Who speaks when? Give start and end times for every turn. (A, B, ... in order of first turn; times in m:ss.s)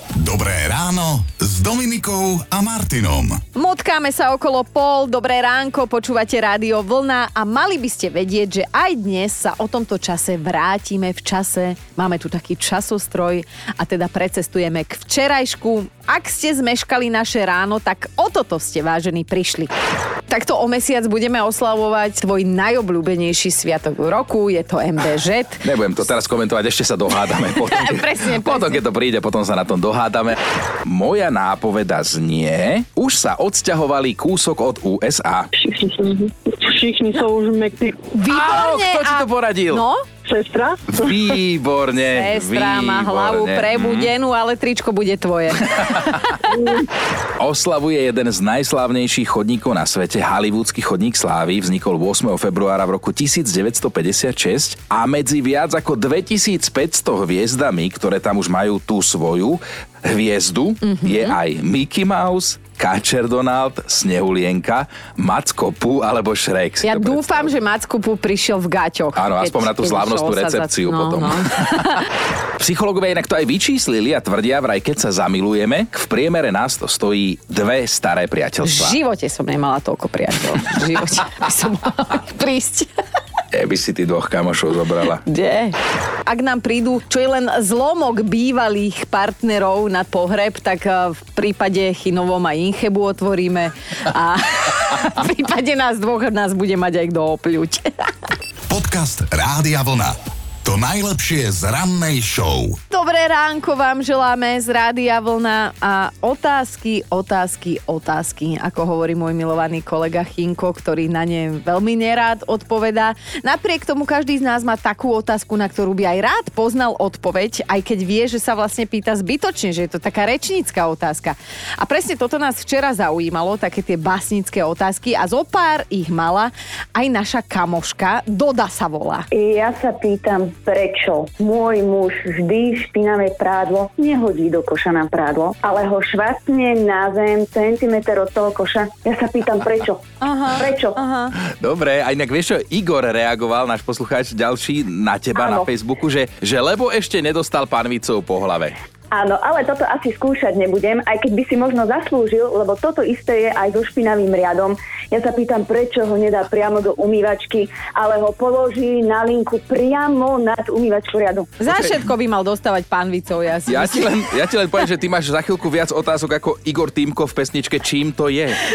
0:00.1-0:03.4 A
0:03.5-0:19.7 B
0:20.3-0:25.7 B
0:25.6-0:35.5 C
0:27.7-0:28.8 B
0:35.6-0:38.1 D
0:38.1-0:40.0 B
0:38.3-0:39.8 C
0:40.2-0:41.3 D
0:41.0-0:44.1 C
0:42.1-0:46.3 B
0:45.7-0:46.4 C
0:47.4-1:07.5 C
1:00.8-1:01.4 B
1:06.8-1:12.0 B
1:09.2-1:11.9 C
1:12.6-1:19.0 C
1:18.6-1:22.9 B
1:23.5-1:25.2 C
1:25.2-1:38.1 B
1:38.7-1:40.1 A
1:40.6-1:42.8 A
1:42.9-2:09.3 B
2:09.3-2:20.0 E
2:20.2-2:21.3 B
2:20.6-2:21.0 E
2:21.4-2:28.8 C
2:25.4-2:25.6 E
2:29.1-2:41.6 E
2:41.6-2:44.3 B
2:43.7-2:48.6 C